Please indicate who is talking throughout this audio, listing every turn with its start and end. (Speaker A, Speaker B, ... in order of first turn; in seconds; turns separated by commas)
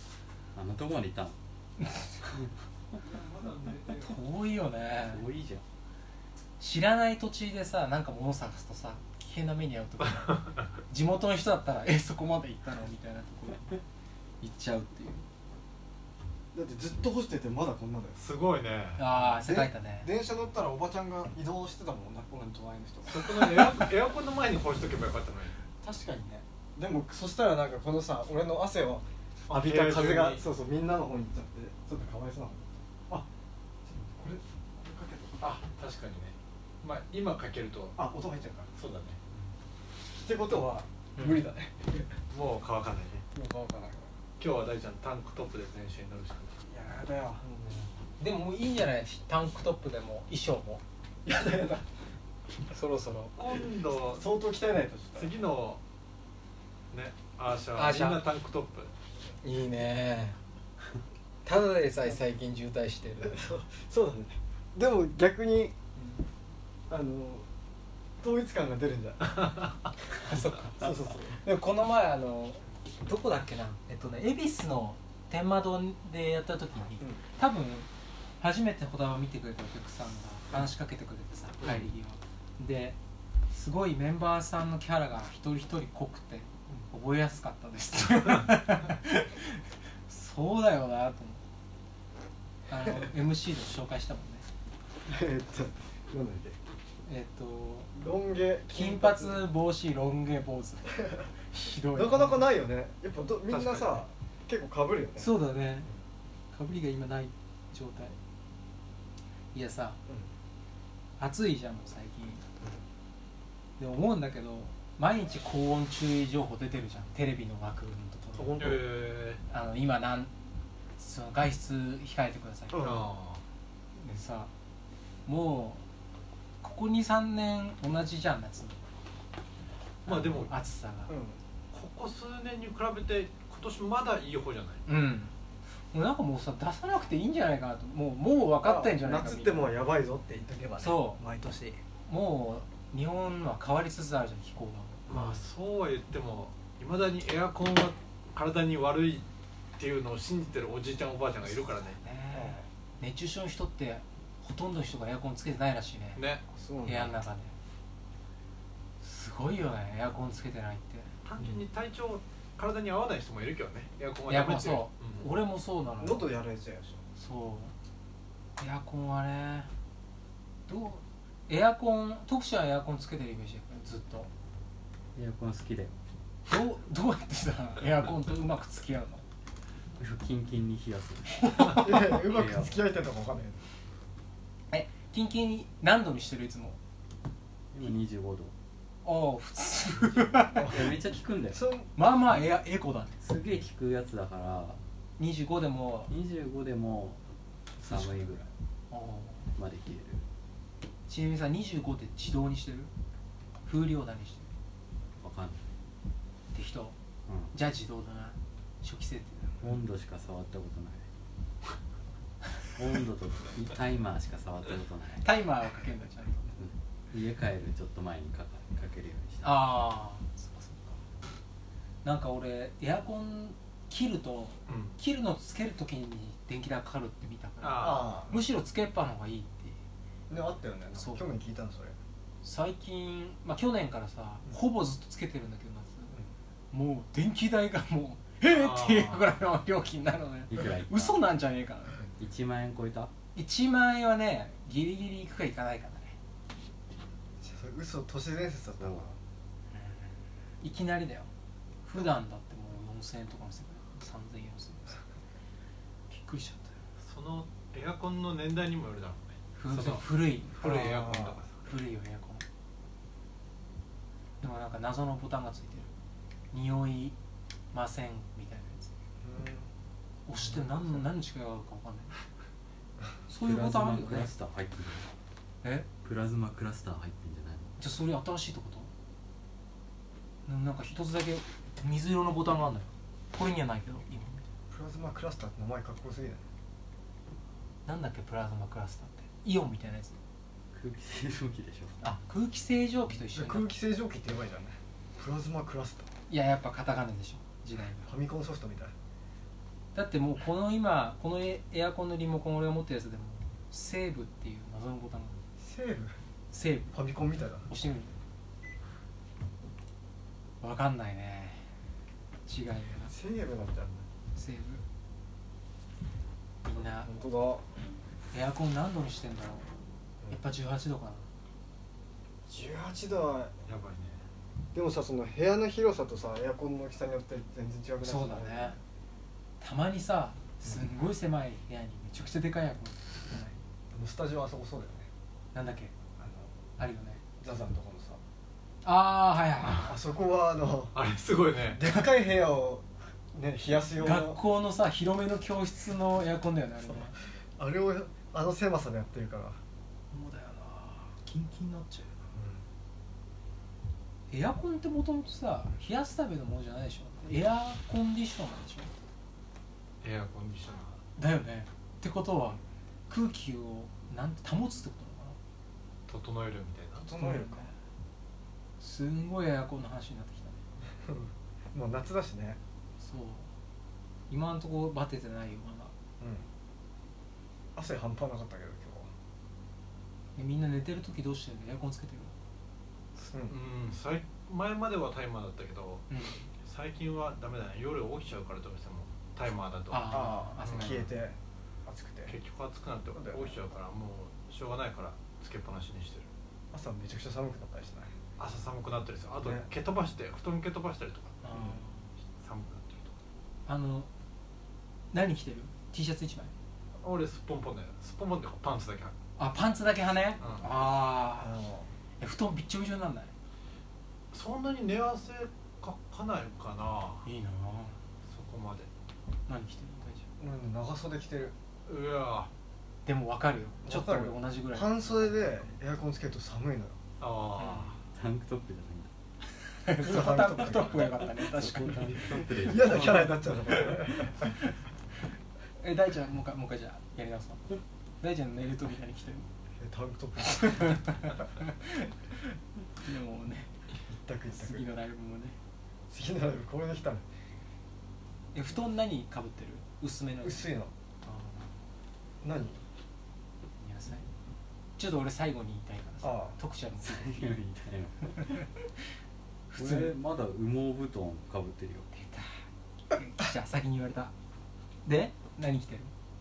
Speaker A: 0.5-1.4, Speaker B: 1.8-2.4, Speaker B: 3.8-5.2, Speaker A: 5.0-5.6, Speaker B: 6.6-13.8, Speaker C: 10.3-10.7, Speaker B: 14.4-15.2, Speaker D: 16.5-18.2, Speaker C: 18.2-19.1, Speaker B: 19.0-20.1, Speaker D: 19.2-23.8, Speaker C: 23.0-25.6, Speaker B: 25.8-26.4, Speaker D: 26.8-33.3, Speaker C: 29.5-30.4, Speaker D: 33.9-35.5, Speaker C: 35.4-38.0, Speaker D: 38.0-38.7, Speaker C: 38.8-39.2, Speaker D: 40.1-42.2, Speaker B: 41.2-41.4, Speaker C: 42.3-43.2, Speaker D: 43.4-44.1, Speaker C: 44.4-46.6, Speaker D: 46.7-47.9, Speaker B: 48.2-50.8, Speaker D: 51.2-51.9, Speaker B: 52.7-53.4, Speaker C: 53.4-54.3, Speaker D: 53.6-55.3, Speaker C: 55.1-55.8, Speaker C: 56.9-58.9, Speaker B: 57.7-58.2, Speaker B: 59.4-60.4, Speaker B: 61.5-63.5, Speaker D: 63.2-65.8, Speaker D: 66.9-67.5, Speaker D: 68.2-69.6, Speaker B: 70.2-77.9, Speaker D: 70.8-71.4, Speaker B: 78.4-83.0, Speaker B: 83.5-91.4, Speaker B: 92.7-94.5, Speaker D: 95.1-96.6, Speaker B: 97.1-97.9, Speaker D: 97.9-99.5, Speaker B: 98.7-102.6, Speaker D: 101.9-105.3, Speaker C: 103.5-104.1, Speaker B: 105.2-105.9, Speaker B: 106.5-108.2, Speaker B: 109.5-110.0, Speaker B: 111.2-112.4, Speaker B: 113.8-118.9, Speaker C: 118.3-119.4, Speaker B: 119.5-120.3, Speaker B: 121.0-122.8, Speaker D: 122.7-123.1, Speaker C: 122.8-123.4, Speaker B: 124.0-124.5, Speaker B: 125.3-125.8, Speaker B: 126.6-128.8, Speaker C: 130.1-130.5, Speaker B: 130.1-131.1, Speaker D: 131.1-131.4, Speaker C: 131.7-134.8, Speaker B: 134.9-135.3, Speaker B: 135.9-139.8, Speaker D: 138.6-141.8, Speaker B: 140.8-141.2, Speaker B: 142.0-145.4, Speaker C: 145.1-149.3, Speaker C: 149.8-152.0, Speaker B: 151.9-156.2, Speaker D: 152.3-152.7, Speaker C: 156.2-156.4, Speaker D: 156.5-157.2, Speaker B: 156.8-157.6, Speaker B: 159.0-161.1, Speaker C: 161.2-165.3, Speaker B: 164.3-166.3, Speaker D: 166.0-167.0, Speaker B: 167.2-167.7, Speaker B: 168.6-169.7, Speaker B: 170.7-174.3, Speaker A: 175.2-176.0, Speaker B: 176.5-179.2, Speaker A: 180.0-182.8, Speaker D: 181.6-183.6, Speaker B: 184.7-186.8, Speaker A: 187.7-188.5, Speaker B: 189.1-190.9, Speaker D: 190.5-191.0, Speaker A: 190.7-191.6, Speaker D: 191.5-191.9, Speaker B: 191.9-193.2, Speaker A: 193.2-194.8, Speaker B: 195.2-196.1, Speaker A: 196.1-197.2, Speaker A: 197.8-198.5, Speaker B: 198.9-199.5, Speaker A: 199.5-200.3, Speaker B: 201.1-202.9, Speaker B: 203.6-204.5, Speaker A: 205.2-205.7, Speaker B: 206.5-206.9, Speaker A: 207.3-207.5, Speaker B: 207.5-209.6, Speaker A: 209.6-211.1, Speaker A: 212.7-215.3, Speaker B: 215.2-216.6, Speaker A: 216.6-219.6, Speaker B: 219.4-221.0, Speaker B: 222.0-229.8, Speaker C: 224.7-225.0, Speaker C: 227.6-228.1, Speaker D: 227.8-228.4, Speaker D: 230.3-232.0, Speaker B: 230.9-231.3, Speaker B: 232.4-236.2, Speaker B: 236.7-242.1, Speaker C: 238.5-239.3, Speaker A: 240.5-241.3, Speaker A: 242.2-243.1, Speaker B: 243.3-246.2, Speaker D: 247.4-249.2, Speaker B: 249.7-251.3, Speaker B: 251.8-255.0, Speaker B: 256.1-256.8, Speaker C: 257.0-261.7, Speaker B: 259.6-261.1, Speaker D: 260.6-261.4, Speaker B: 261.6-262.4, Speaker B: 264.4-265.9, Speaker B: 266.5-267.2, Speaker B: 267.7-268.9, Speaker D: 269.2-269.7, Speaker B: 270.3-272.1, Speaker D: 270.4-271.1, Speaker B: 273.3-274.3, Speaker A: 273.4-275.1, Speaker B: 275.6-275.9, Speaker A: 276.0-277.7, Speaker B: 277.8-278.9, Speaker B: 280.5-284.4, Speaker D: 284.7-286.5, Speaker B: 287.9-290.2, Speaker A: 290.7-292.0, Speaker B: 292.0-293.7, Speaker D: 293.3-296.1, Speaker B: 296.3-298.1, Speaker D: 298.1-298.9, Speaker B: 299.9-305.4, Speaker D: 305.6-306.2, Speaker B: 306.5-307.0, Speaker D: 306.9-307.7, Speaker B: 307.7-308.2, Speaker B: 310.6-311.6, Speaker B: 312.5-313.1, Speaker D: 313.1-314.1, Speaker B: 314.3-314.8, Speaker B: 316.6-317.1, Speaker D: 317.0-317.7, Speaker B: 318.3-319.7, Speaker B: 320.3-321.3, Speaker D: 322.5-323.5, Speaker C: 323.7-324.2, Speaker D: 324.7-328.8, Speaker B: 328.0-328.8, Speaker B: 329.6-333.6, Speaker D: 333.9-335.1, Speaker B: 335.5-335.9, Speaker D: 336.2-336.5, Speaker B: 336.8-337.2, Speaker D: 337.4-338.2, Speaker B: 338.8-340.0, Speaker D: 339.9-340.9, Speaker C: 340.9-341.8, Speaker D: 341.6-344.4, Speaker B: 344.0-347.1, Speaker D: 346.9-349.6, Speaker B: 350.1-352.2, Speaker D: 352.3-352.6, Speaker B: 354.3-358.9, Speaker C: 360.0-361.0, Speaker B: 361.2-365.4, Speaker C: 366.1-367.1, Speaker D: 367.0-367.7, Speaker B: 367.2-367.7, Speaker B: 368.8-370.6, Speaker D: 371.0-372.6, Speaker B: 373.0-373.5, Speaker B: 374.3-375.9, Speaker D: 376.2-376.5, Speaker D: 377.8-379.1, Speaker B: 380.4-382.3, Speaker D: 383.2-383.6, Speaker C: 383.5-386.1, Speaker B: 386.1-386.5, Speaker C: 386.6-391.1, Speaker B: 389.9-391.1, Speaker D: 390.1-392.4, Speaker C: 392.3-396.3, Speaker D: 393.1-393.6, Speaker D: 396.7-398.1, Speaker C: 398.4-401.4, Speaker D: 399.4-399.7, Speaker B: 401.4-402.1, Speaker D: 401.5-401.8, Speaker C: 402.4-403.1, Speaker B: 403.7-404.1, Speaker B: 405.1-406.5, Speaker C: 407.0-409.1, Speaker B: 409.4-411.6, Speaker C: 410.4-410.7, Speaker D: 411.4-411.9, Speaker B: 412.2-413.3, Speaker C: 414.3-417.3, Speaker B: 417.2-418.0, Speaker C: 418.3-418.9, Speaker B: 419.5-420.3, Speaker D: 420.4-421.6, Speaker C: 421.9-422.5, Speaker B: 423.1-425.8, Speaker D: 423.8-427.0, Speaker C: 427.2-428.0, Speaker B: 427.6-428.0, Speaker A: 428.1-429.1, Speaker B: 429.8-433.1, Speaker D: 430.0-431.1, Speaker A: 430.6-433.8, Speaker D: 432.6-434.4, Speaker B: 435.8-439.5, Speaker D: 439.8-441.1, Speaker B: 440.5-443.7, Speaker D: 444.1-444.9, Speaker B: 444.5-445.6, Speaker D: 446.1-447.2, Speaker B: 448.5-450.7, Speaker D: 450.4-450.9, Speaker B: 451.2-451.9, Speaker D: 452.4-452.8, Speaker B: 453.8-454.2, Speaker B: 455.0-457.6, Speaker D: 456.2-456.6, Speaker A: 457.0-458.7, Speaker B: 459.7-460.1, Speaker A: 459.8-462.1, Speaker B: 462.1-464.3, Speaker B: 465.1-466.1